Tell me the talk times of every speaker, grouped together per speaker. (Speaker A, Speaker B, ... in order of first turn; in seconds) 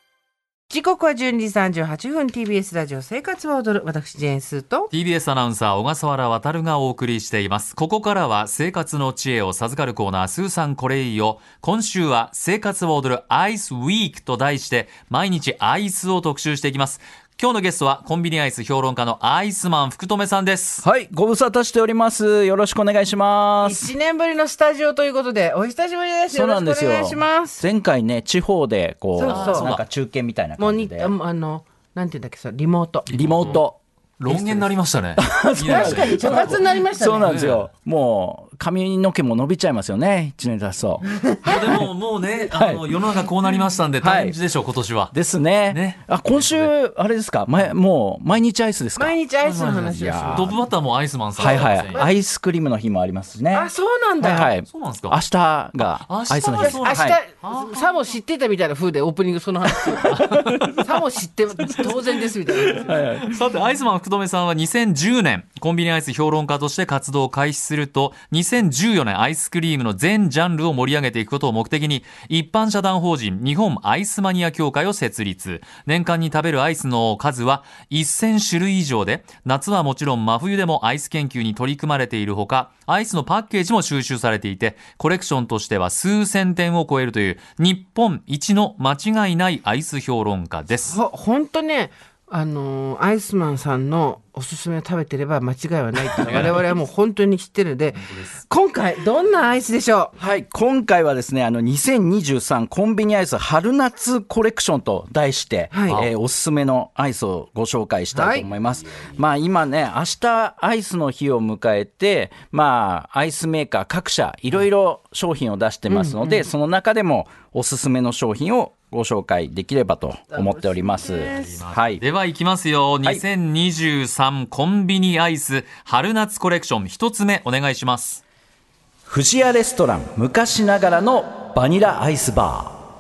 Speaker A: 0.7-4.9, 23.6-27.6, 29.1-29.8, 30.6-33.6, 35.6-37.4, 41.2-41.8, 49.0-50.6, 51.4-52.1, 53.5-54.5, 56.5-63.0, 90.8-100.1, 105.7-106.0, 108.1-108.5, 115.9-116.4, 120.3-121.6
Speaker B: 4.9-20.8, 29.2-29.8, 33.1-33.6, 34.2-37.7, 41.4-45.1, 45.7-46.7, 49.4-52.0, 54.6-55.2, 55.8-58.1, 60.1-60.9, 62.8-91.0, 96.2-96.6, 97.9-98.4, 105.9-106.1, 121.2-128.2
Speaker C: 20.8-23.9, 26.3-31.1, 33.1-41.1, 42.4-42.8, 44.0-44.4, 45.1-49.2, 49.9-50.6, 51.4-53.7, 54.2-57.2, 60.0-60.8, 62.7-63.4, 96.2-96.5, 100.2-122.0, 129.1-132.8